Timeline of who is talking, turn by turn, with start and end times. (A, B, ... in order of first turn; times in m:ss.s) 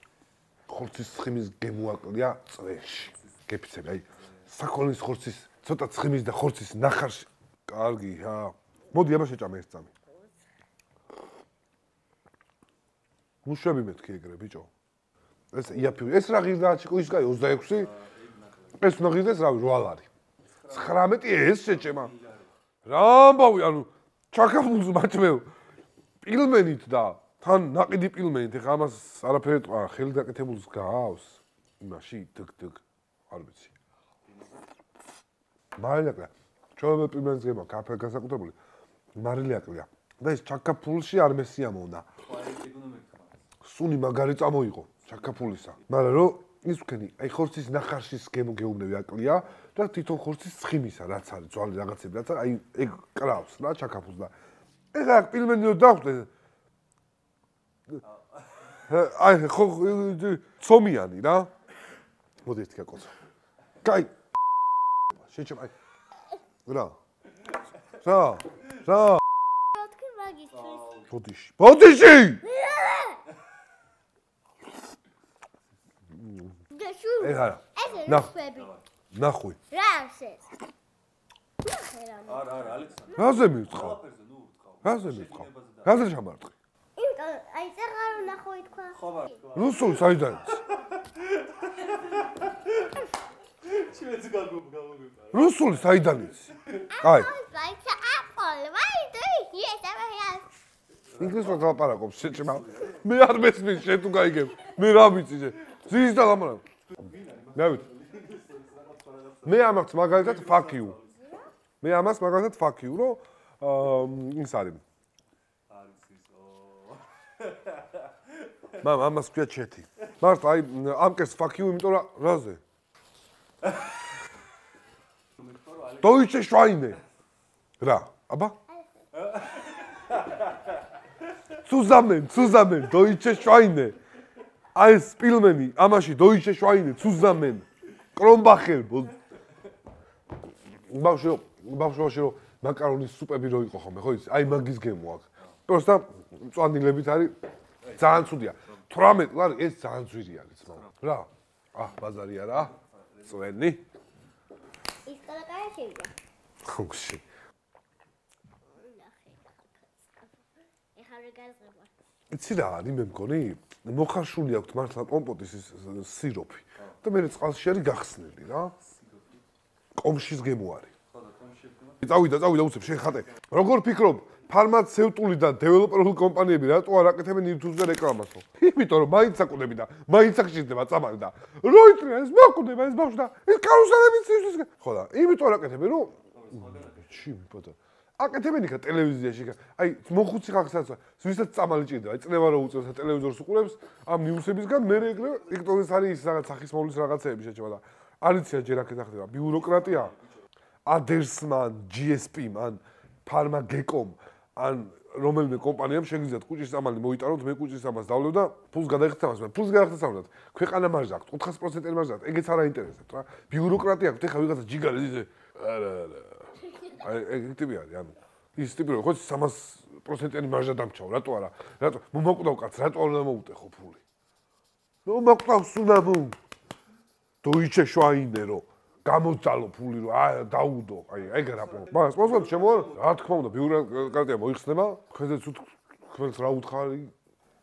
0:00.7-0:09.9 A
0:13.4-0:14.7 A
0:15.5-0:17.9 A
0:17.6-0:18.9 B
0:18.8-0:20.1 A
0:20.4-0:22.5 B
0:20.7-0:22.1 A
0:22.8-0:25.5 A
0:26.2-0:33.7 A
0:34.2-0:34.7 B
0:35.8-0:38.5 A
0:39.1-0:42.0 A
0:42.2-0:43.4 B
0:43.6-0:54.3 A
0:45.3-0:45.8 B
0:54.9-0:56.3 A
0:58.0-0:58.8 B
0:58.8-1:01.5 A
1:02.4-1:03.1 A
1:03.8-1:04.1 A
1:05.2-1:05.7 A
1:06.6-1:07.0 A
1:08.0-1:09.2 A
1:09.7-1:11.0 C
1:10.5-1:11.1 B
1:11.1-1:12.4 A
1:12.4-1:13.2 C
1:16.1-1:16.5 A
1:16.7-1:18.7 C
1:17.2-1:18.3 A
1:17.8-1:18.8 B
1:19.1-1:19.6 A
1:19.7-1:20.4 C
1:21.6-1:23.2 C
1:22.2-1:26.1 B
1:23.2-1:24.0 A
1:24.8-1:26.5 A
1:27.0-1:29.3 C
1:28.9-1:33.0 B
1:29.5-1:30.6 A
1:33.6-1:35.7 B
1:35.3-1:37.3 A
1:36.9-1:40.5 C
1:41.1-1:43.1 B
1:41.2-1:46.6 A
1:46.9-1:51.1 B
1:47.5-1:47.8 A
1:49.4-1:51.0 A
1:51.1-1:51.5 C
1:51.8-1:54.8 A
1:55.7-1:58.5 B
1:58.8-2:02.6 A
2:05.4-2:06.9 B
2:06.0-2:07.0 A
2:07.8-2:08.6 A
2:08.7-2:09.0 C
2:09.1-2:10.8 B
2:11.6-2:14.0 A
2:14.7-2:19.1 A
2:20.9-2:27.4 A
2:27.8-2:28.8 B
2:27.9-2:32.7 A
2:32.5-2:33.5 B
2:33.2-2:33.8 A
2:35.0-2:36.1 C
2:36.6-2:37.2 A
2:38.6-2:40.4 C
2:40.9-2:41.9 C
2:42.3-2:48.7 A
2:48.8-2:49.4 B
2:50.0-2:50.9 A
2:51.1-2:52.1 B
2:52.0-3:20.1 A
3:06.2-3:07.2 B
3:14.9-3:15.6 B
3:19.5-3:20.4 B
3:20.8-3:44.0 A
3:45.0-3:46.4 A
3:47.4-3:57.1 A
3:51.3-3:53.1 B